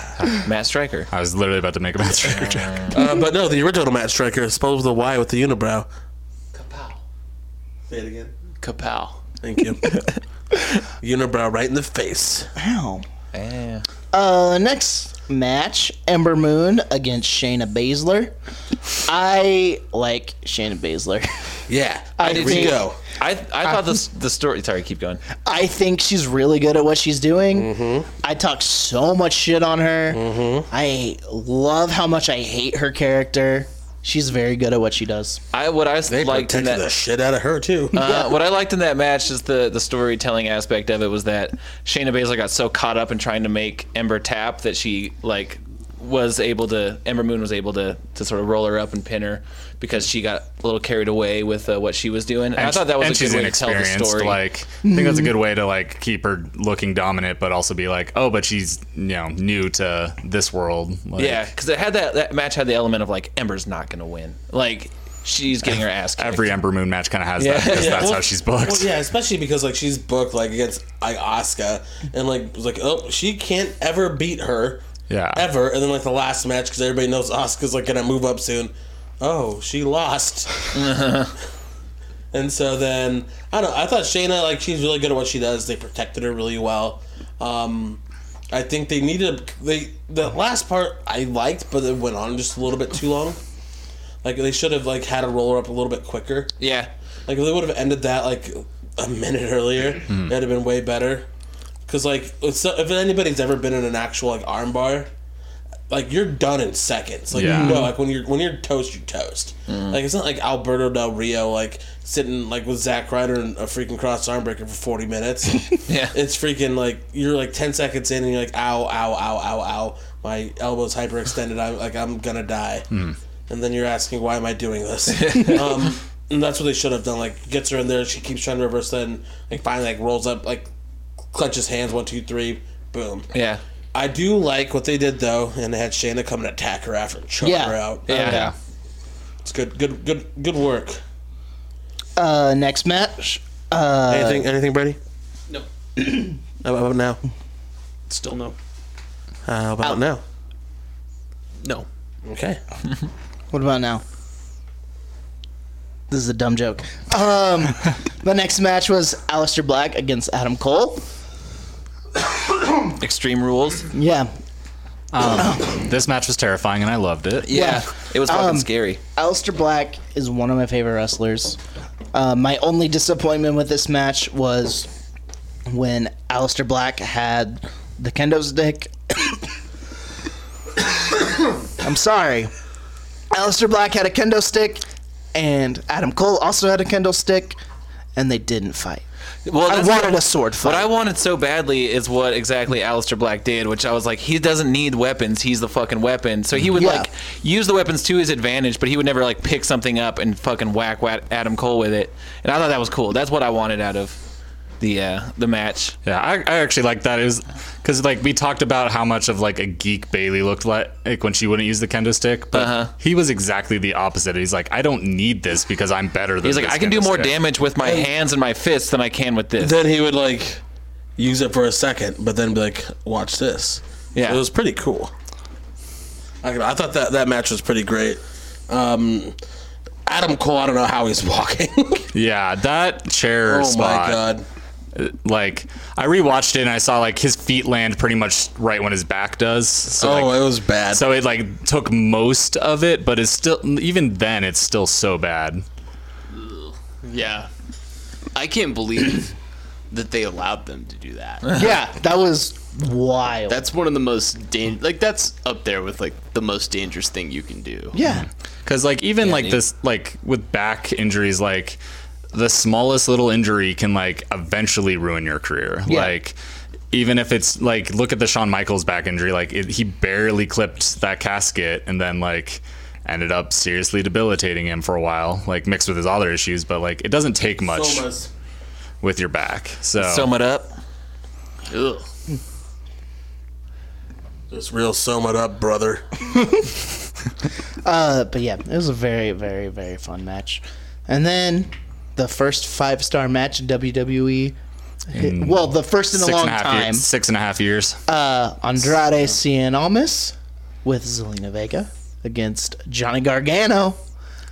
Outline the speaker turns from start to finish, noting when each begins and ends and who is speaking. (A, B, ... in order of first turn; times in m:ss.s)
0:00.3-0:01.1 A
0:01.1-0:02.9 B
0:02.2-0:03.0 A
0:02.2-0:05.8 C
0:06.5-0:07.0 D
0:07.9-0:08.3 C
0:08.6-0:09.2 D
0:09.4-0:09.9 C
0:11.0-0:12.5 C
0:12.6-0:13.0 E
0:13.3-0:13.8 A
0:14.1-0:18.3 E
0:19.0-0:21.3 E
0:21.7-0:23.0 C
0:22.2-0:22.8 E
0:22.2-0:25.2 A
0:25.4-0:27.7 E
0:27.5-0:28.1 C
0:28.2-0:35.4 E
0:30.1-0:30.7 C
0:35.5-0:36.8 A
0:36.1-0:38.0 C
0:37.9-0:54.4 A
0:37.9-0:38.3 E
0:52.6-1:01.5 B
0:54.8-0:55.3 E
1:01.2-1:06.6 A
1:06.2-1:08.9 B
1:07.4-1:08.2 A
1:07.6-1:14.8 C
1:15.1-1:15.4 B
1:15.3-1:21.1 C
1:20.7-1:21.3 A
1:22.3-1:28.0 C
1:28.5-1:33.4 C
1:34.2-1:36.5 C
1:36.6-1:36.9 A
1:37.3-1:41.2 C
1:41.9-1:45.1 C
1:45.9-2:02.9 C
1:47.3-1:47.9 B
1:47.3-1:47.9 E
1:49.7-1:50.0 A
1:55.9-1:56.2 A
2:03.5-2:10.7 C
2:05.1-2:05.9 A
2:11.3-2:13.3 C
2:13.3-2:13.6 A
2:13.9-2:18.1 C
2:17.4-2:18.5 E
2:18.1-2:18.5 A
2:18.1-2:18.5 B
2:19.4-2:21.0 C
2:22.2-2:24.5 E
2:24.1-2:25.0 C
2:26.5-2:27.2 C
2:28.1-2:28.6 D
2:29.4-2:30.2 C
2:31.6-2:31.9 D
2:32.2-2:32.6 C
2:33.5-2:34.0 E
2:36.1-2:41.0 E
2:42.9-2:43.9 A
2:43.9-2:44.3 E
2:45.1-2:47.6 B
2:45.2-2:45.7 E
2:47.4-2:49.0 A
2:47.5-2:51.6 E
2:52.1-2:54.9 E
2:55.7-2:59.4 E
3:01.7-3:02.5 E
3:03.3-3:07.6 E
3:08.2-3:09.0 E
3:09.4-3:24.2 A
3:09.6-3:10.9 E
3:16.7-3:17.1 E
3:24.8-3:26.0 A
3:26.0-3:37.4 B
3:32.5-3:32.9 A
3:36.4-3:39.8 A
3:37.8-3:38.1 C
3:39.6-3:40.6 C
3:41.2-3:45.1 C
3:44.1-3:44.4 A
3:46.4-3:49.4 C
3:50.0-3:52.1 C
3:52.1-3:54.2 B
3:53.4-3:54.4 C
3:54.9-4:00.4 B
3:59.9-4:01.0 C
4:00.9-4:05.6 B
4:06.3-4:07.5 D
4:08.3-4:09.3 D
4:09.9-4:11.6 D
4:11.5-4:13.6 E
4:13.5-4:18.0 D
4:17.9-4:18.2 E
4:18.1-4:21.8 B
4:19.2-4:19.6 A
4:22.3-4:26.4 B
4:25.9-4:26.1 E
4:26.9-4:38.1 B
4:37.6-4:38.3 C
4:39.0-4:40.3 B
4:40.0-4:40.7 A
4:41.7-4:42.0 D
4:44.5-4:46.0 C
4:47.8-4:54.6 E
4:55.1-4:57.0 E
4:55.1-4:58.0 B
4:58.1-5:04.0 E